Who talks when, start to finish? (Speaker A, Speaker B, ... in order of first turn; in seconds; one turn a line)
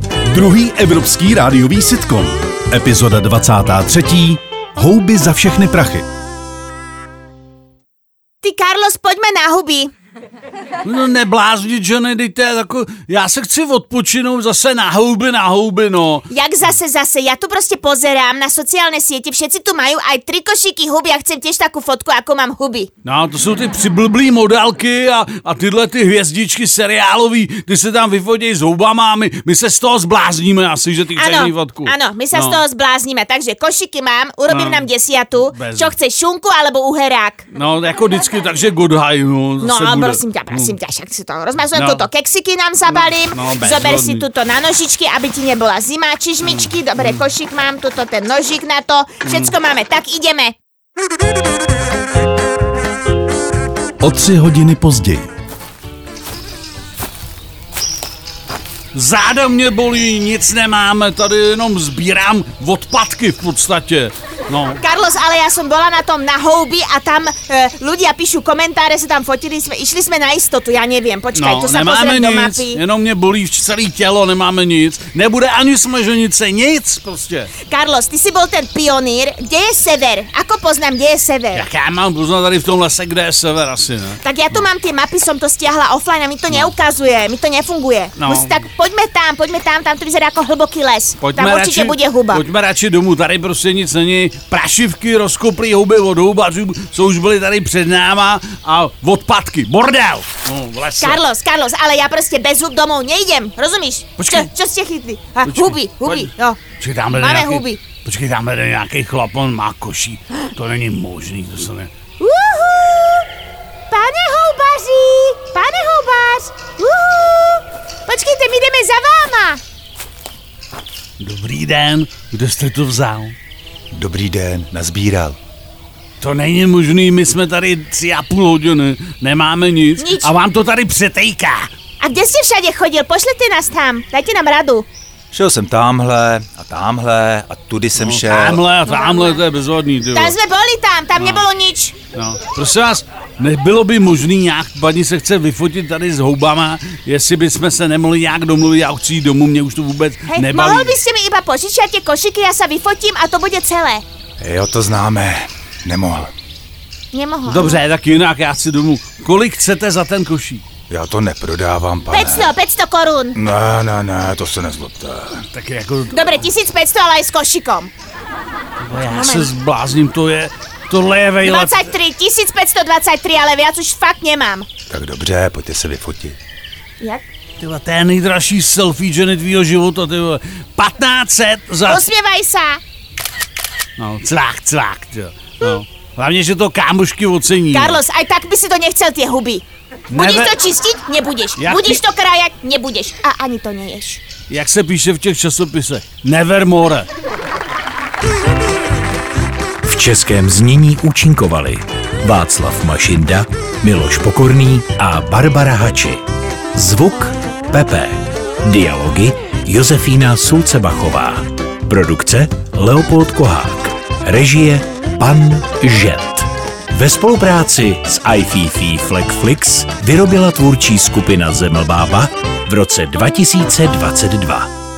Speaker A: 0.3-6.0
Speaker B: 8.4-9.9
Speaker C: 10.8-16.2
Speaker B: 16.3-22.9
Speaker C: 23.0-32.6
Speaker B: 31.1-37.4
Speaker C: 34.5-34.9
Speaker C: 35.4-35.9
Speaker C: 37.5-40.8
Speaker B: 39.6-50.5
Speaker C: 41.7-42.1
Speaker C: 42.9-44.2
Speaker C: 46.4-47.2
Speaker C: 49.2-49.5
Speaker A: 54.0-55.3
Speaker C: 58.9-64.8
Speaker B: 64.8-72.8
Speaker C: 71.3-77.5
Speaker B: 77.6-81.7
Speaker C: 81.5-84.6
Speaker B: 84.2-92.4
Speaker C: 88.2-88.6
Speaker C: 91.2-101.2
Speaker B: 101.0-107.8
Speaker C: 104.2-104.5
Speaker C: 105.5-111.9
Speaker B: 112.2-113.2
Speaker B: 113.9-119.6
Speaker C: 121.2-123.3
Speaker D: 123.9-125.4
Speaker C: 126.2-131.7
Speaker B: 130.0-130.3
Speaker B: 132.0-134.9
Speaker D: 135.3-138.6
Speaker C: 137.9-140.4
Speaker B: 138.9-139.4
Speaker B: 140.1-141.9
Speaker C: 141.2-141.5
Speaker C: 142.1-151.0
Speaker B: 150.3-154.0
Speaker D: 154.4-156.3
Speaker B: 157.1-157.8
Speaker C: 157.5-160.6
Speaker D: 160.9-162.5
Speaker B: 162.1-163.4
Speaker D: 163.3-165.4
Speaker C: 165.5-166.5
Speaker B: 166.1-167.9
Speaker C: 168.8-171.8
Speaker B: 169.0-169.5
Speaker B: 171.4-174.7
Speaker D: 174.9-176.4
Speaker C: 177.6-182.1
Speaker B: 181.8-182.8
Speaker C: 184.0-188.0
Speaker B: 187.7-194.2
Speaker C: 190.1-190.6
Speaker C: 191.6-192.0
Speaker C: 194.5-197.1
Speaker E: 199.8-206.2
Speaker E: 206.7-224.7